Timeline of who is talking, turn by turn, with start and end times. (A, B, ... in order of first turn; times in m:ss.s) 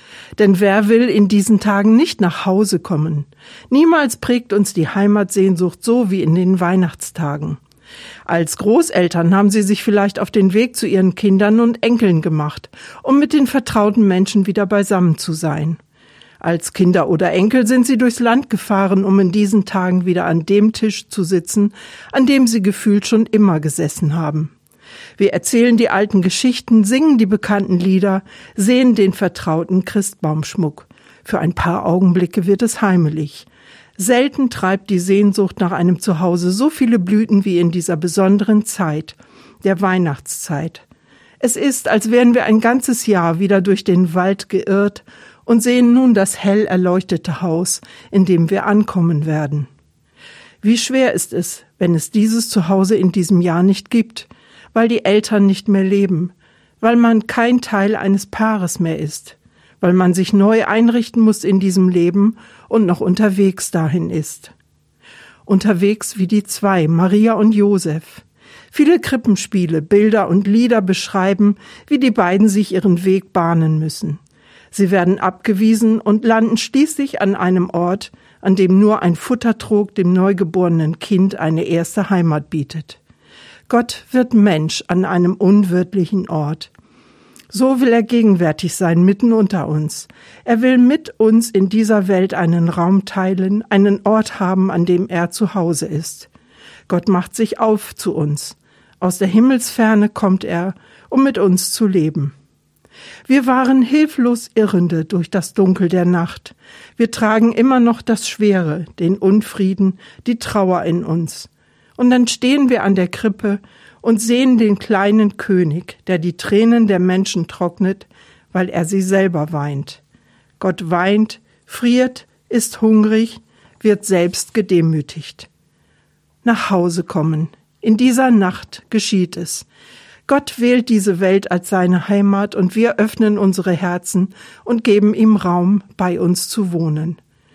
0:00.4-0:07.6 A
0:08.3-0:15.8 A
0:16.4-0:24.5 A
0:25.2-0:40.8 A
0:41.4-0:49.7 A
0:50.6-1:04.5 A
1:05.5-1:14.2 A
1:14.7-1:23.0 A
1:23.7-1:26.7 A
1:27.5-1:36.3 A
1:36.9-1:42.3 A
1:43.3-2:00.0 A
2:00.6-2:05.5 A
2:06.4-2:09.7 A
2:10.3-2:17.2 A